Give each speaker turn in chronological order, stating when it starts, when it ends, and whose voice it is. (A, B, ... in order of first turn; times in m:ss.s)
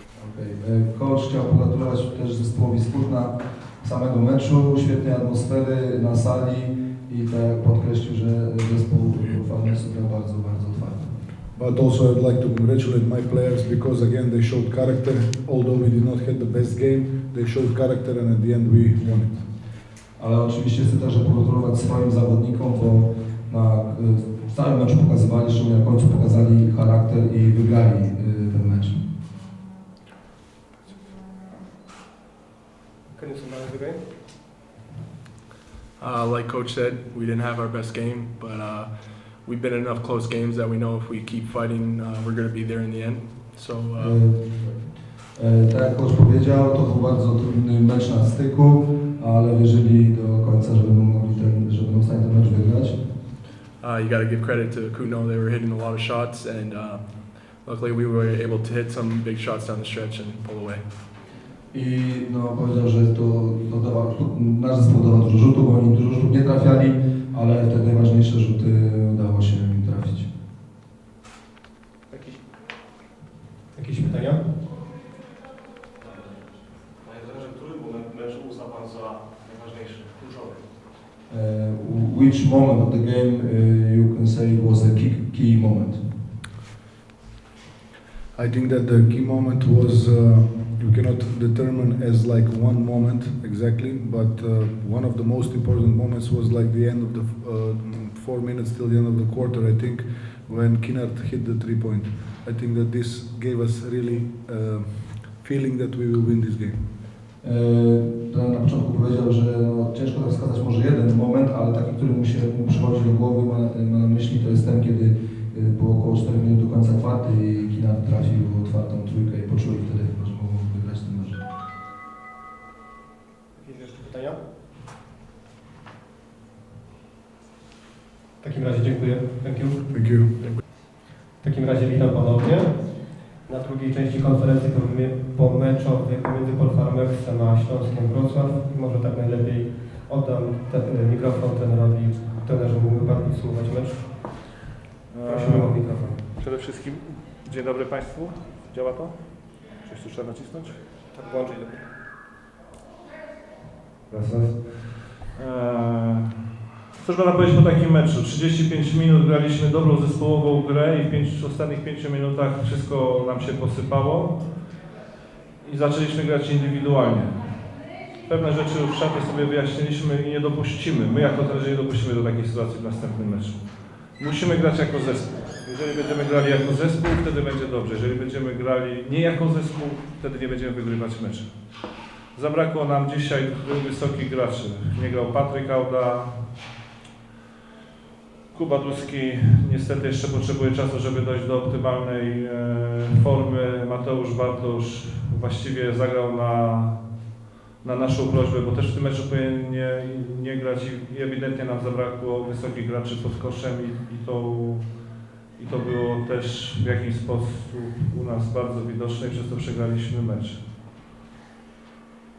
0:00.2-0:11.2 A
0:11.6-0:19.4 B
0:20.2-0:29.0 A
0:33.1-0:34.1 C
0:36.0-0:44.2 D
0:44.0-0:44.5 A
0:45.3-0:53.0 A
0:53.8-1:01.0 D
1:01.7-1:10.3 A
1:13.7-1:14.5 C
1:17.0-1:20.6 E
1:21.3-1:26.0 A
1:28.3-1:47.0 B
1:47.4-2:01.4 A
2:03.6-2:04.4 C
2:08.4-2:09.9 C
2:09.9-2:10.4 B
2:11.4-2:24.4 C
2:25.1-2:30.8 F
2:25.2-2:26.2 C
2:31.0-2:31.8 C
2:34.1-2:36.3 F
2:37.0-2:44.7 F
2:45.6-3:06.5 F
3:08.5-3:17.2 F
3:17.8-3:30.6 F